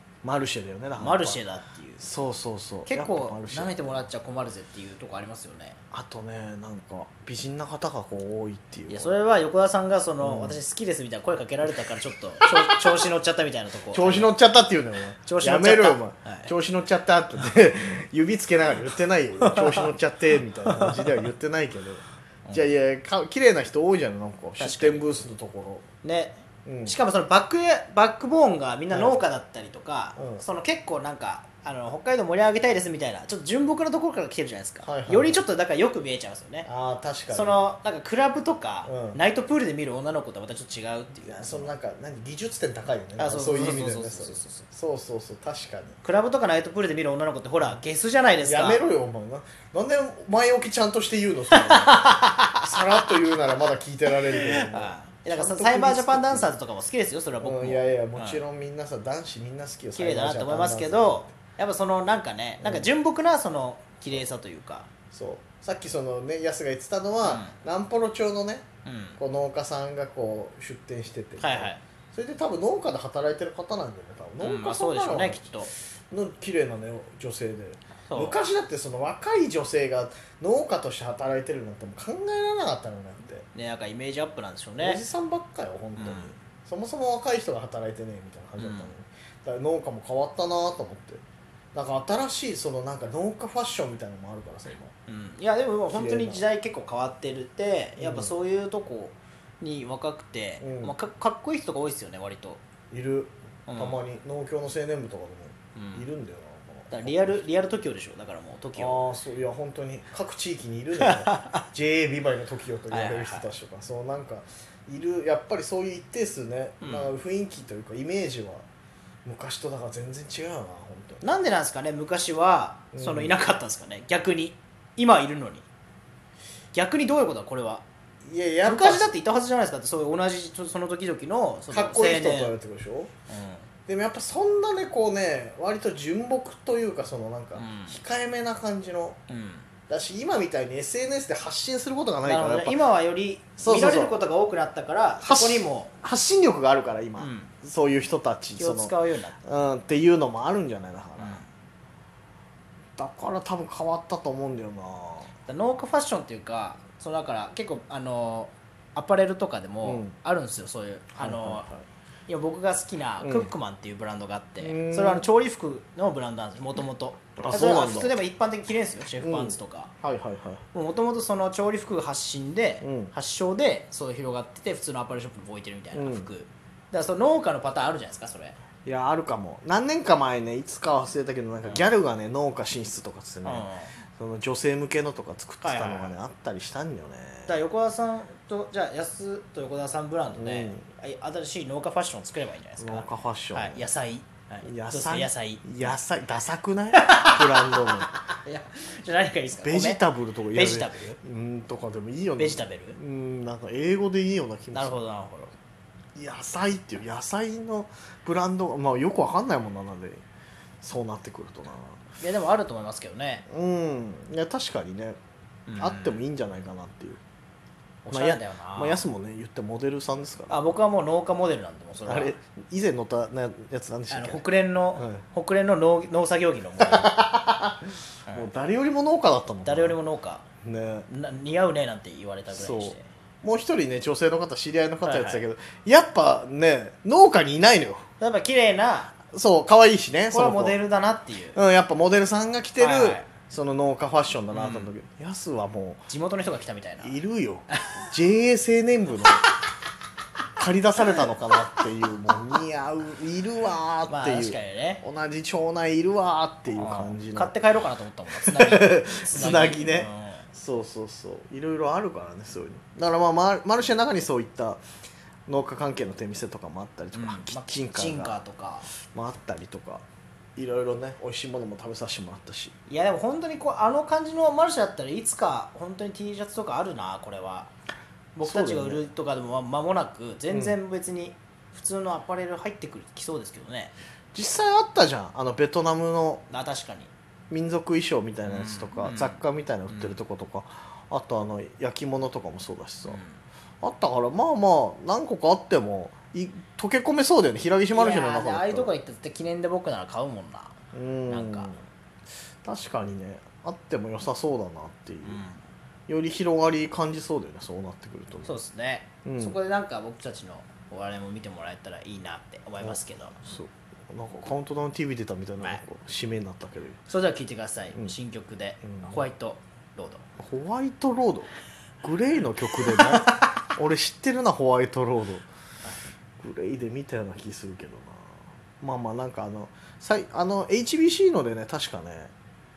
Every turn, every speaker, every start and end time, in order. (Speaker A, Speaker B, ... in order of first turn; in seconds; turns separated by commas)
Speaker A: 0.2-1.4, Speaker B: 1.0-2.0, Speaker A: 2.0-4.0, Speaker B: 2.9-5.8, Speaker A: 5.9-9.1, Speaker B: 8.9-14.3, Speaker A: 10.2-10.6, Speaker A: 12.4-12.9, Speaker A: 13.9-25.9, Speaker B: 15.2-16.5, Speaker B: 19.4-19.9, Speaker B: 20.7-21.1, Speaker B: 24.6-25.2, Speaker B: 26.0-36.7, Speaker A: 26.6-26.9, Speaker A: 28.9-29.2, Speaker A: 30.1-30.4, Speaker A: 34.8-35.4, Speaker A: 36.6-37.6, Speaker B: 37.3-41.7, Speaker A: 38.8-39.2, Speaker A: 41.2-46.0, Speaker B: 43.2-44.7, Speaker B: 46.0-48.8, Speaker A: 48.4-56.5, Speaker B: 51.5-52.7, Speaker B: 54.3-58.4, Speaker A: 57.4-61.4, Speaker B: 59.9-64.9, Speaker A: 62.6-62.9, Speaker A: 65.1-68.7, Speaker B: 67.2-67.5, Speaker B: 68.8-69.2, Speaker A: 69.2-75.5, Speaker B: 71.4-71.8, Speaker B: 74.4-75.7, Speaker A: 76.1-83.5, Speaker B: 78.0-78.4, Speaker B: 83.5-85.0, Speaker A: 84.8-91.2, Speaker B: 86.0-86.3, Speaker B: 88.6-88.9, Speaker A: 91.7-94.9, Speaker B: 95.1-102.6, Speaker A: 95.9-96.4, Speaker A: 98.0-98.3, Speaker A: 100.6-100.9, Speaker A: 102.9-107.4, Speaker B: 103.7-104.0, Speaker B: 105.7-106.0, Speaker B: 106.9-109.0, Speaker A: 108.8-118.6, Speaker B: 111.0-111.6, Speaker B: 112.9-113.5, Speaker B: 116.8-117.1, Speaker A: 119.2-121.3, Speaker B: 121.2-125.6, Speaker A: 122.9-123.3, Speaker B: 126.7-127.8, Speaker A: 128.2-129.1, Speaker B: 128.6-132.5, Speaker A: 131.7-133.1, Speaker B: 133.3-133.7, Speaker A: 133.9-139.2, Speaker B: 137.5-138.0, Speaker B: 139.3-139.7, Speaker A: 139.9-142.8, Speaker B: 142.2-145.9, Speaker A: 143.6-144.1, Speaker A: 145.2-151.4, Speaker B: 147.2-147.5, Speaker B: 148.6-149.4, Speaker B: 151.2-151.5, Speaker A: 153.0-155.3, Speaker B: 155.5-161.7, Speaker A: 159.8-160.2, Speaker A: 161.2-161.8, Speaker B: 162.3-169.9, Speaker A: 163.2-163.5, Speaker A: 164.6-165.3, Speaker A: 167.4-168.2, Speaker A: 169.2-170.6, Speaker B: 170.7-178.6, Speaker A: 172.8-173.1, Speaker A: 175.9-176.3, Speaker A: 178.8-187.6, Speaker B: 183.4-183.9, Speaker B: 185.6-186.2, Speaker B: 187.5-195.9, Speaker A: 190.3-190.8, Speaker A: 192.8-193.8, Speaker A: 194.6-198.1, Speaker B: 196.9-200.0, Speaker A: 199.6-205.0, Speaker B: 200.5-201.2, Speaker B: 202.4-203.0, Speaker B: 204.7-205.5, Speaker A: 206.2-210.2, Speaker A: 210.8-212.0, Speaker B: 212.2-213.4, Speaker A: 213.5-215.2, Speaker B: 215.7-216.2, Speaker A: 215.8-217.2, Speaker B: 218.0-219.0, Speaker A: 218.1-220.6, Speaker B: 220.5-222.4, Speaker A: 222.1-225.2, Speaker B: 224.1-227.1, Speaker A: 226.8-230.0, Speaker B: 229.6-230.4, Speaker A: 230.6-231.1, Speaker B: 231.1-233.0, Speaker A: 232.5-238.0, Speaker B: 235.0-235.4, Speaker B: 238.2-239.1, Speaker A: 239.3-240.8, Speaker B: 240.3-241.6, Speaker A: 241.5-246.1, Speaker B: 242.8-243.3, Speaker B: 244.5-244.9, Speaker B: 246.1-247.2, Speaker A: 247.0-249.5, Speaker B: 247.7-248.1, Speaker A: 250.6-257.5, Speaker B: 254.1-255.0, Speaker B: 256.7-260.4, Speaker A: 258.4-264.8, Speaker A: 265.5-268.4, Speaker B: 267.1-268.9, Speaker A: 269.1-270.0, Speaker A: 270.6-272.7, Speaker B: 272.9-277.7, Speaker B: 278.4-283.9, Speaker A: 278.4-279.0, Speaker A: 280.5-280.8, Speaker A: 284.3-286.4, Speaker B: 286.5-287.1, Speaker A: 287.5-293.2, Speaker B: 288.4-290.2, Speaker B: 293.1-293.4, Speaker A: 293.8-298.9, Speaker B: 297.9-300.8, Speaker A: 300.9-301.8, Speaker B: 301.3-301.8, Speaker A: 302.6-305.4, Speaker B: 305.2-305.6, Speaker A: 306.1-308.6, Speaker B: 308.4-313.4, Speaker A: 309.2-309.6, Speaker A: 312.8-317.0, Speaker B: 317.1-320.2, Speaker A: 318.8-319.2, Speaker A: 320.4-325.4, Speaker B: 322.7-323.4, Speaker A: 326.4-332.3